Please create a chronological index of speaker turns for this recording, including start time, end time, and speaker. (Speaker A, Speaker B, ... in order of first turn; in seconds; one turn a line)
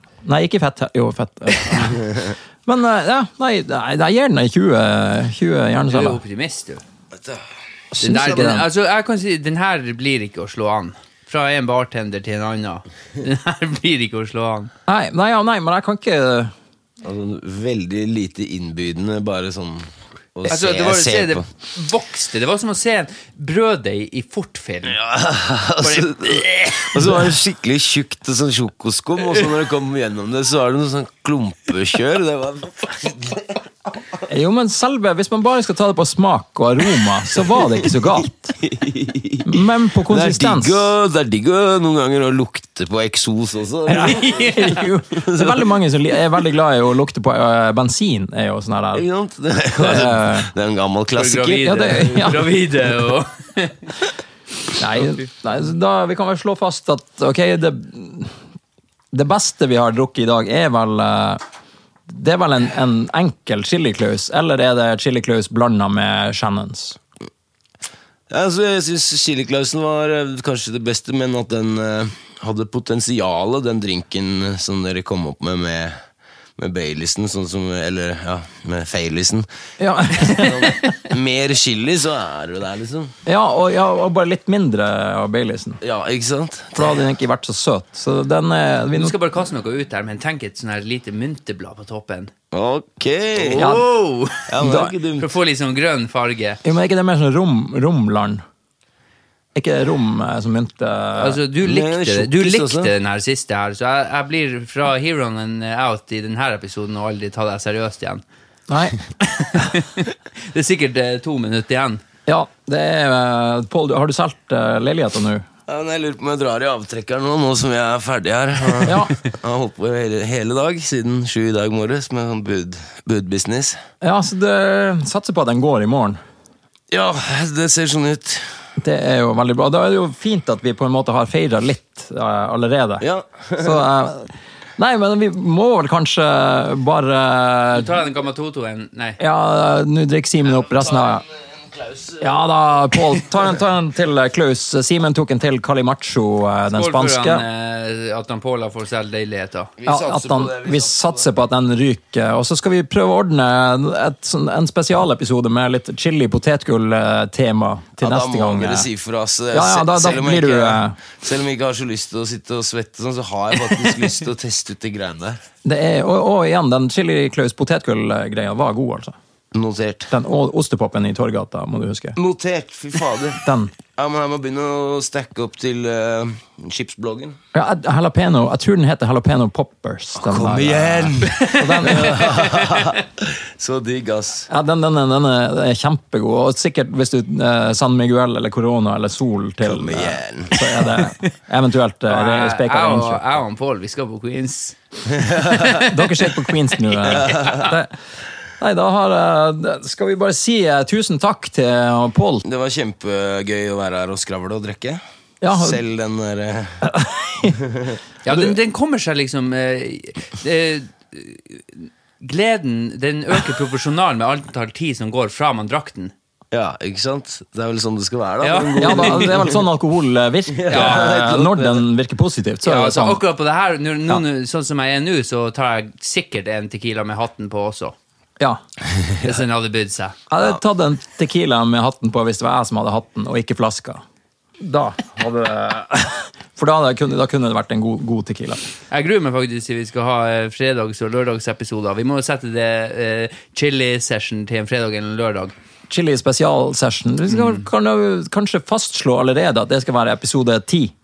Speaker A: 0.2-6.2
Speaker B: 5.9-6.8
Speaker C: 7.1-7.4
Speaker A: 7.9-8.7
Speaker B: 8.0-14.7
Speaker A: 14.9-16.5
Speaker C: 17.0-21.4
Speaker B: 20.5-25.0
Speaker C: 24.9-33.6
Speaker B: 25.8-27.1
Speaker A: 26.9-27.3
Speaker A: 34.3-38.6
Speaker C: 38.6-45.7
Speaker A: 39.4-40.9
Speaker A: 43.9-49.0
Speaker B: 44.0-44.8
Speaker C: 49.0-52.0
Speaker A: 49.8-50.5
Speaker B: 51.2-53.9
Speaker A: 51.6-52.5
Speaker A: 54.8-58.4
Speaker B: 54.9-55.2
Speaker A: 59.1-61.4
Speaker A: 62.1-67.0
Speaker C: 68.3-76.0
Speaker C: 76.6-79.5
Speaker A: 79.8-81.0
Speaker C: 80.1-83.1
Speaker A: 83.3-85.8
Speaker C: 85.8-87.0
Speaker A: 86.8-89.2
Speaker B: 88.9-92.3
Speaker C: 92.5-93.9
Speaker B: 93.4-96.6
Speaker A: 93.6-93.9
Speaker C: 94.5-95.3
Speaker A: 94.6-94.9
Speaker A: 96.6-98.4
Speaker A: 99.5-101.4
Speaker B: 101.2-108.2
Speaker C: 101.6-102.9
Speaker A: 108.7-109.0
Speaker B: 109.2-112.0
Speaker A: 112.3-115.5
Speaker C: 115.7-123.8
Speaker A: 118.8-119.2
Speaker A: 124.0-126.2
Speaker C: 126.9-128.5
Speaker A: 128.8-133.1
Speaker C: 133.0-133.8
Speaker A: 133.6-137.9
Speaker B: 137.7-139.2
Speaker A: 139.2-141.2
Speaker C: 140.7-142.4
Speaker A: 142.2-147.4
Speaker B: 146.7-149.7
Speaker C: 149.8-151.3
Speaker A: 149.8-158.9
Speaker C: 158.0-165.4
Speaker A: 159.5-161.0
Speaker A: 165.6-169.2
Speaker C: 169.5-170.1
Speaker A: 170.1-172.2
Speaker C: 172.2-177.4
Speaker A: 173.4-173.7
Speaker A: 177.5-182.4
Speaker C: 180.2-184.5
Speaker B: 181.4-183.0
Speaker A: 184.5-193.2
Speaker C: 189.6-190.7
Speaker B: 192.1-195.9
Speaker C: 195.1-195.7
Speaker A: 195.6-197.9
Speaker C: 197.1-197.7
Speaker A: 198.6-202.4
Speaker C: 202.4-205.0
Speaker A: 205.4-205.8
Speaker C: 205.5-206.8
Speaker A: 206.8-207.6
Speaker C: 207.5-208.0
Speaker B: 208.2-216.1
Speaker A: 208.3-208.6
Speaker C: 216.5-219.6
Speaker B: 218.4-219.5
Speaker A: 218.8-223.2
Speaker C: 220.5-221.9
Speaker B: 220.7-221.2
Speaker B: 222.6-227.9
Speaker B: 229.2-230.2
Speaker A: 230.3-234.0
Speaker A: 234.6-238.6
Speaker B: 238.9-245.6
Speaker A: 245.9-250.9
Speaker B: 247.3-247.7